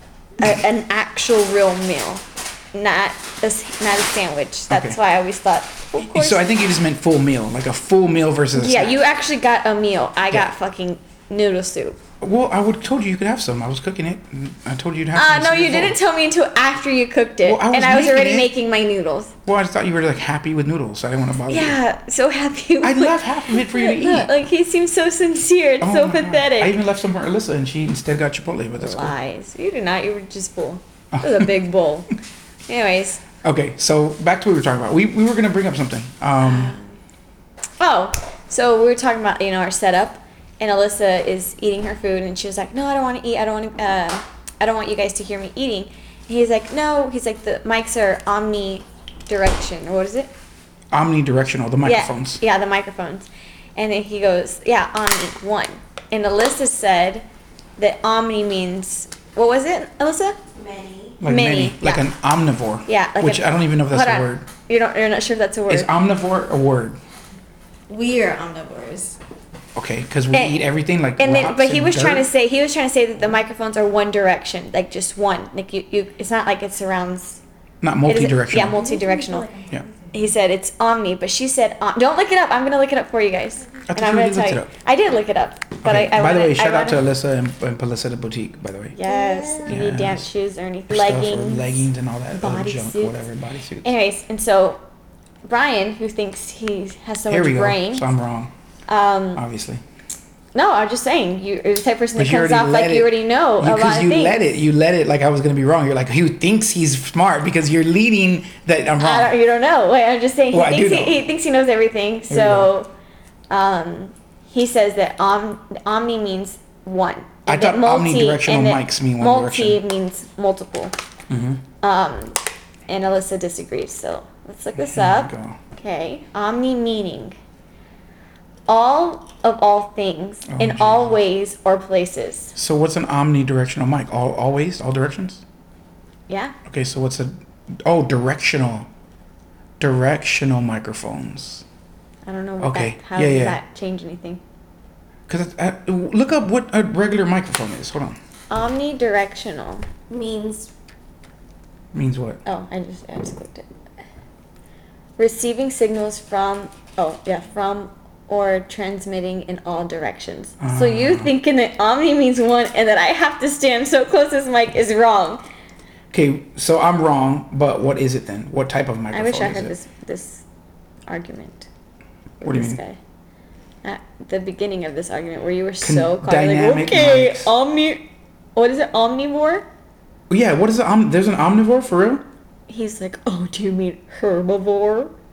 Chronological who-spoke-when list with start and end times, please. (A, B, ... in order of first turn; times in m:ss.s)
0:00.4-0:06.4 A
0:04.7-0:05.0 B
0:06.0-0:09.0 B
0:08.5-0:12.0 A
0:12.2-0:16.0 B
0:15.1-0:19.3 A
0:17.4-0:18.5 B
0:19.4-0:21.8 B
0:21.5-0:26.8 A
0:22.8-0:24.3 B
0:25.8-0:29.1 B
0:28.8-0:32.1 A
0:31.1-0:31.5 B
0:32.7-0:33.2 A
0:33.4-0:36.7 B
0:36.4-0:37.0 A
0:37.8-0:50.3 A
0:50.9-0:52.4 B
0:51.8-0:57.2 A
0:57.8-1:00.4 A
1:00.5-1:01.2 C
1:01.2-1:04.5 B
1:01.2-1:02.0 A
1:02.8-1:05.9 A
1:05.7-1:07.0 B
1:07.9-1:09.2 C
1:09.7-1:12.3 B
1:10.3-1:10.6 A
1:11.2-1:17.4 A
1:17.8-1:18.8 B
1:18.0-1:19.5 A
1:18.6-1:20.1 C
1:20.1-1:27.0 A
1:23.9-1:24.7 B
1:25.8-1:29.0 B
1:28.9-1:33.2 A
1:29.0-1:29.8 C
1:29.6-1:30.3 B
1:30.9-1:33.9 B
1:33.8-1:34.8 A
1:35.4-1:38.0 A
1:37.3-1:38.5 B
1:38.9-1:39.4 A
1:39.3-1:39.8 B
1:40.5-1:44.4 A
1:42.2-1:49.3 B
1:49.0-1:52.9 A
1:50.5-1:51.2 B
1:52.3-1:52.7 B
1:53.5-2:00.9 A
1:57.5-1:59.8 B
2:01.3-2:01.6 B
2:01.8-2:02.4 A
2:02.9-2:07.4 A
2:04.8-2:05.6 B
2:08.7-2:12.5 A
2:10.5-2:11.2 B
2:12.5-2:15.4 B
2:16.3-2:16.6 A
2:16.6-2:18.9 B
2:19.8-2:21.6 B
2:22.2-2:24.4 A
2:22.6-2:23.6 B
2:25.3-2:28.2 B
2:28.5-2:29.9 A
2:30.1-2:30.7 C
2:31.9-2:32.4 B
2:32.4-2:33.7 A
2:35.2-2:45.4 A
2:40.6-2:41.3 B
2:46.1-2:49.7 B
2:49.1-2:50.4 A
2:51.1-2:51.7 A
2:52.4-2:53.0 A
2:52.4-2:52.8 B
2:53.8-2:59.6 A
2:55.8-2:57.5 B
3:00.3-3:02.2 B
3:02.7-3:05.1 A